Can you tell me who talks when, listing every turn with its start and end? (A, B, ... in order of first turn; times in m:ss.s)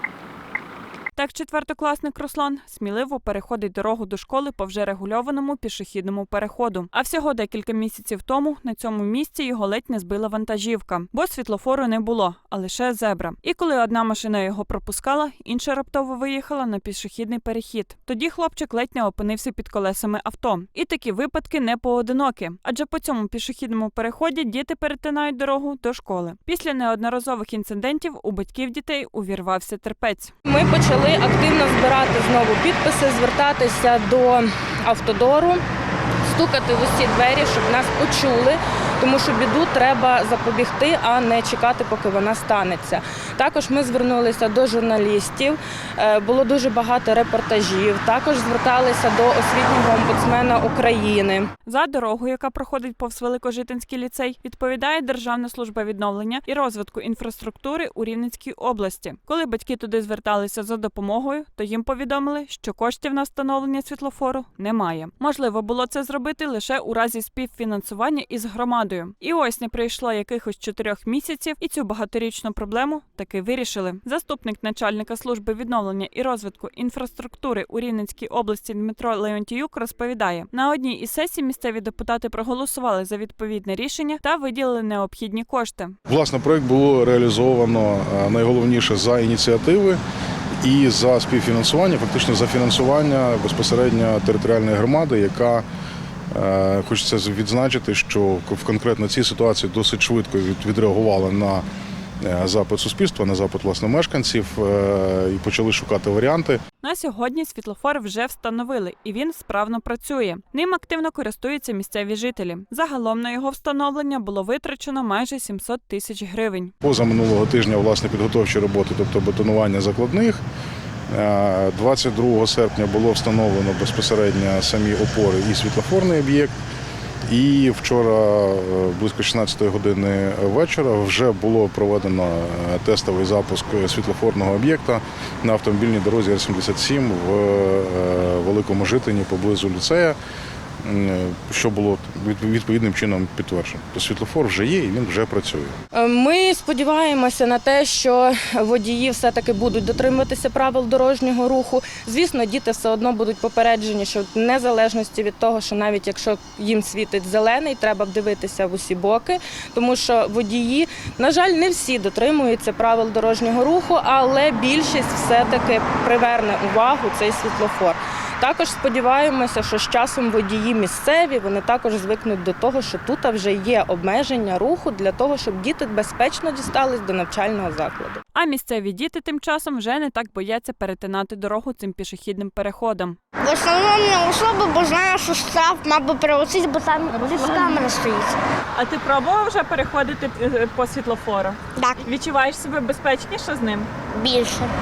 0:01.2-0:30.3 A
0:30.5-0:35.6 B
0:36.3-0:51.5 B
0:51.7-1:26.0 A
1:26.1-1:30.0 C
1:30.6-1:35.6 C
1:36.3-1:41.6 C
1:42.2-1:46.6 C
1:46.8-1:56.7 A
1:56.8-2:00.4 C
2:01.1-2:06.5 C
2:07.3-2:20.2 C
2:20.8-2:25.8 C
2:25.9-2:58.2 B
2:58.4-3:03.2 A
3:03.4-3:08.4 D
3:07.3-3:07.8 A
3:08.8-3:13.9 A
3:11.8-3:12.0 D
3:14.1-3:14.7 D